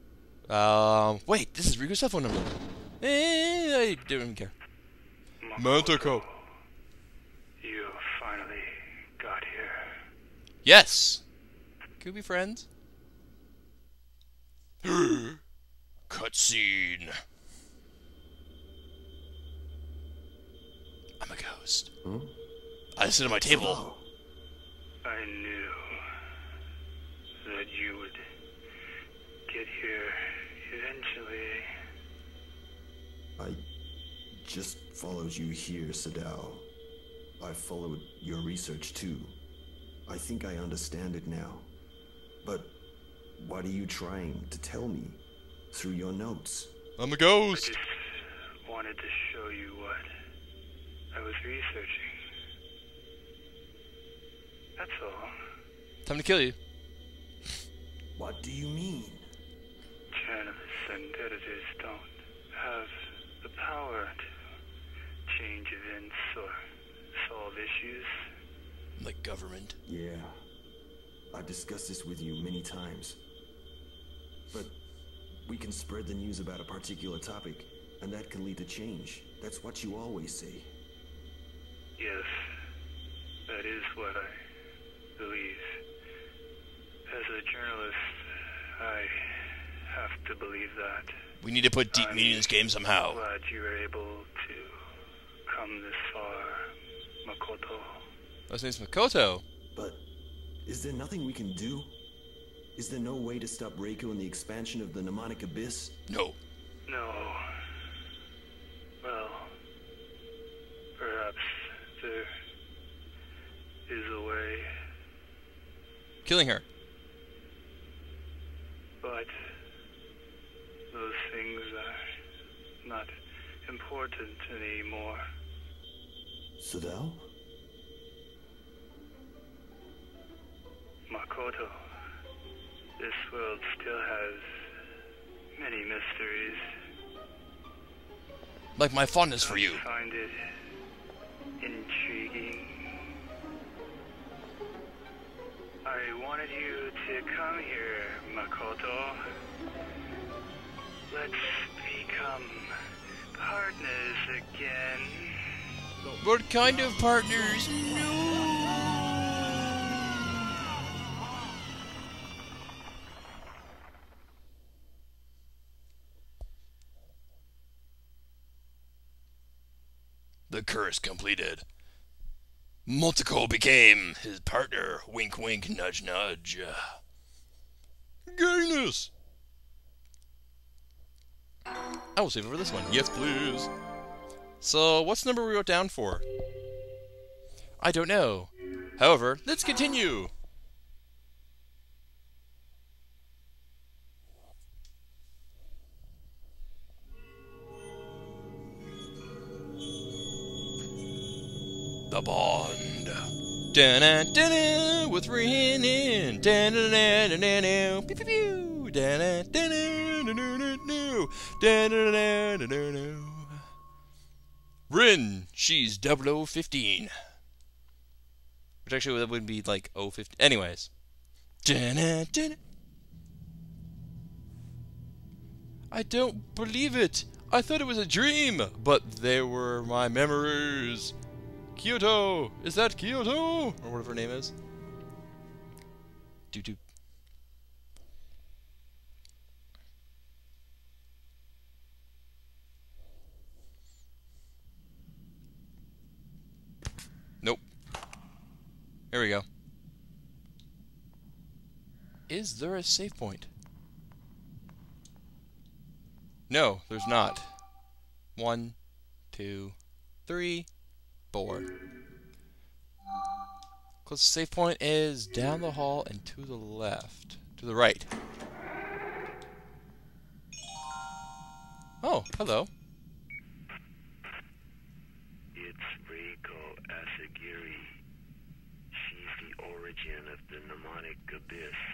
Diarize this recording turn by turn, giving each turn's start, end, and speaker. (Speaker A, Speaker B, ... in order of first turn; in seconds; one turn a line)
Speaker A: 0.5-4.5
Speaker B: 5.4-6.4
Speaker A: 5.6-6.2
Speaker B: 7.6-10.0
Speaker A: 10.6-11.2
Speaker A: 12.0-12.7
Speaker A: 14.8-15.4
Speaker A: 16.1-17.2
Speaker A: 21.2-21.9
Speaker C: 22.0-22.3
Speaker A: 23.0-23.8
Speaker C: 23.4-24.1
Speaker B: 25.0-26.1
Speaker B: 27.4-28.2
Speaker B: 29.5-31.7
Speaker C: 34.4-36.7
Speaker C: 37.4-39.4
Speaker C: 40.1-41.7
Speaker C: 42.4-42.7
Speaker C: 43.4-46.7
Speaker A: 47.0-47.7
Speaker B: 47.5-50.1
Speaker B: 51.1-52.1
Speaker B: 54.8-55.4
Speaker A: 56.0-56.6
Speaker C: 58.1-59.3
Speaker B: 60.1-64.2
Speaker B: 65.3-66.6
Speaker B: 67.2-68.1
Speaker A: 69.0-69.8
Speaker C: 69.9-70.3
Speaker C: 71.3-73.2
Speaker C: 74.5-74.8
Speaker C: 75.4-80.7
Speaker B: 82.0-82.4
Speaker B: 83.5-84.3
Speaker B: 85.2-85.8
Speaker B: 87.1-91.1
Speaker A: 91.4-93.2
Speaker B: 91.9-94.8
Speaker B: 95.5-96.7
Speaker B: 97.2-98.0
Speaker A: 98.5-99.4
Speaker C: 99.7-100.0
Speaker C: 100.6-102.0
Speaker C: 102.8-106.0
Speaker A: 106.1-106.4
Speaker B: 106.9-107.4
Speaker B: 109.0-109.5
Speaker B: 111.0-112.3
Speaker B: 113.9-114.7
Speaker A: 116.2-116.6
Speaker B: 119.0-119.3
Speaker B: 120.9-122.0
Speaker B: 122.8-123.1
Speaker B: 123.7-125.2
Speaker C: 126.6-127.3
Speaker B: 131.1-131.8
Speaker B: 133.0-134.7
Speaker B: 135.6-136.7
Speaker A: 138.8-139.8
Speaker B: 139.4-140.4
Speaker B: 141.6-143.0
Speaker B: 145.8-149.2
Speaker B: 151.1-152.7
Speaker B: 153.4-155.5
Speaker C: 156.0-158.5
Speaker A: 156.2-160.1
Speaker A: 170.5-171.6
Speaker A: 172.9-177.0
Speaker A: 178.3-179.1
Speaker A: 182.2-183.7
Speaker A: 184.6-186.2
Speaker A: 187.8-190.3
Speaker A: 202.1-213.6
Speaker A: 214.9-217.1
Speaker A: 218.8-220.9
Speaker A: 221.6-222.6
Speaker A: 225.9-231.1
Speaker A: 231.8-234.5
Speaker A: 236.5-236.8
Speaker A: 249.1-249.4
Speaker A: 252.3-253.5
Speaker A: 256.5-257.6
Speaker A: 258.4-258.8
Speaker A: 259.3-260.7
Speaker A: 261.3-261.7
Speaker A: 264.0-268.1
Speaker A: 272.0-272.7
Speaker D: 275.6-277.9
Speaker D: 278.9-281.8